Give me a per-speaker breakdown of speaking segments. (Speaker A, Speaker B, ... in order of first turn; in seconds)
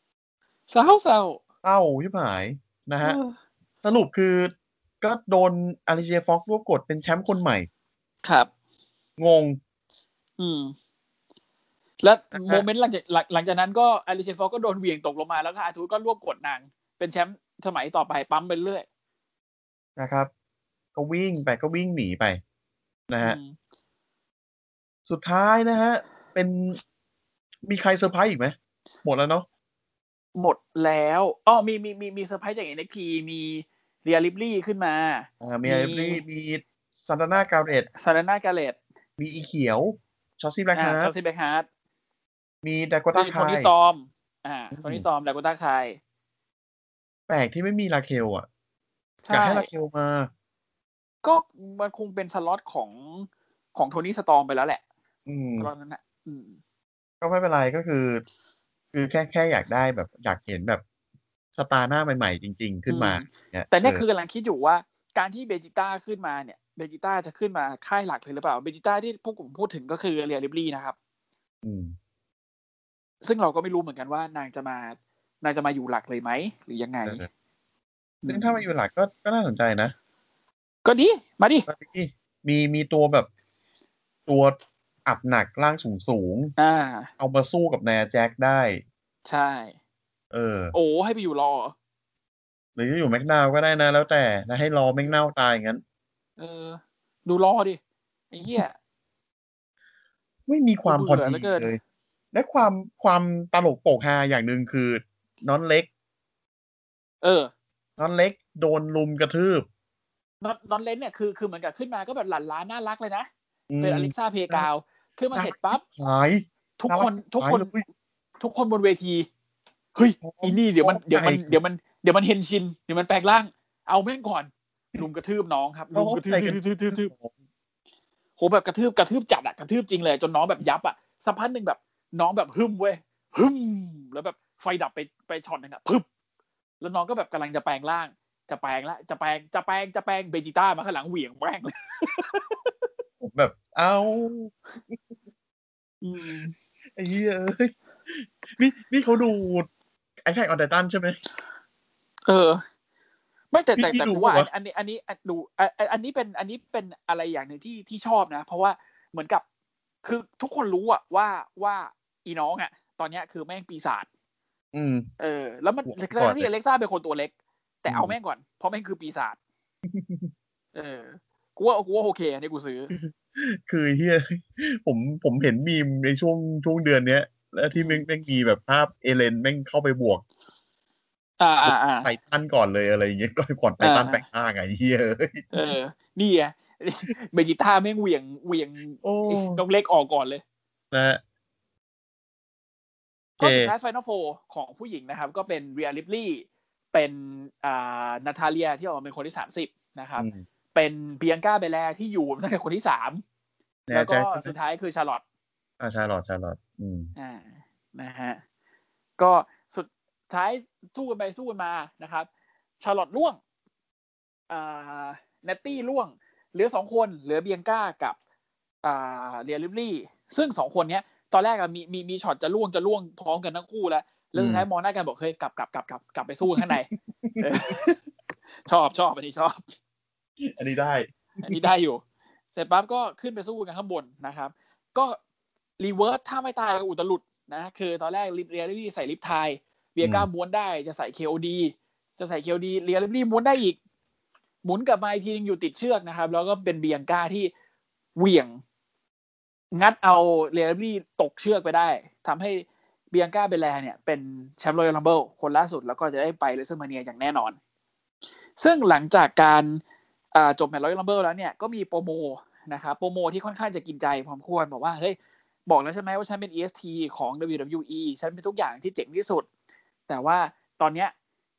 Speaker A: 0.7-1.4, 3.0-3.4, 8.2-8.5, 10.4-10.7, 12.0-18.9, 23.2-23.6, 30.4-36.2, 38.0-38.8, 40.7-41.7, 43.1-46.0, 49.2-49.7, 51.2-54.8, 55.6-56.6, 62.9-71.0, 73.2-77.2, 78.2-78.7, 80.8-81.7, 86.6-87.1, 89.2-89.8, 90.7-91.8, 96.4-97.8, 98.3-98.8, 100.9-101.7, 107.2-107.5, 110.4-113.3, 113.8-115.8, 116.8-117.7, 118.4-119.3, 120.0-127.1, 128.4-136.1, 136.8-142.4, 146.0-146.5, 152.3-152.6, 153.5-159.4, 160.0-164.1, 165.2-167.3, 167.8-169.4, 170.7-172.9, 177.8-178.1, 181.4-182.1, 183.8-184.2, 185.5-190.4, 193.4-203.2, 203.9-205.2, 207.2-208.4, 209.2-212.3, 212.8-213.4, 214.5-218.2, 218.8-226.9, 227.4-228.0, 228.7-229.7, 231.4-232.0, 232.5-235.2, 235.8-243.8, 244.6-247.5, 248.2-248.6, 249.7-257.6, 258.6-259.8, 260.3-269.5, 270.1-271.1
Speaker B: 1.6-3.2, 3.8-7.7, 9.2-9.6, 12.3-12.7, 20.0-20.3, 20.9-22.4, 23.1-23.4, 25.1-26.8, 27.6-29.5, 35.4-37.9, 39.2-41.1, 42.6-43.7, 44.8-45.0, 47.3-48.5, 49.3-50.3, 55.3-55.7, 57.2-58.2, 58.9-60.8, 61.5-64.0, 71.6-71.9, 78.3-79.9, 81.7-83.3, 84.3-86.5, 87.2-88.8, 90.3-90.7, 92.8-95.8, 100.5-101.8, 102.3-105.9, 108.0-109.7, 113.7-114.7, 115.3-117.9, 120.2-121.6, 126.0-127.3, 143.2-145.0, 146.9-149.7, 150.2-151.2, 153.8-154.5, 164.7-165.1, 165.9-166.5, 167.9-168.1, 169.9-170.3, 172.9-180.2, 181.7-185.7, 189.0-189.6, 190.9-191.2, 193.4-193.7, 200.2-200.4, 203.9-204.5, 205.8-207.1, 224.3-224.7, 226.5-227.5, 230.4-231.6, 240.0-240.3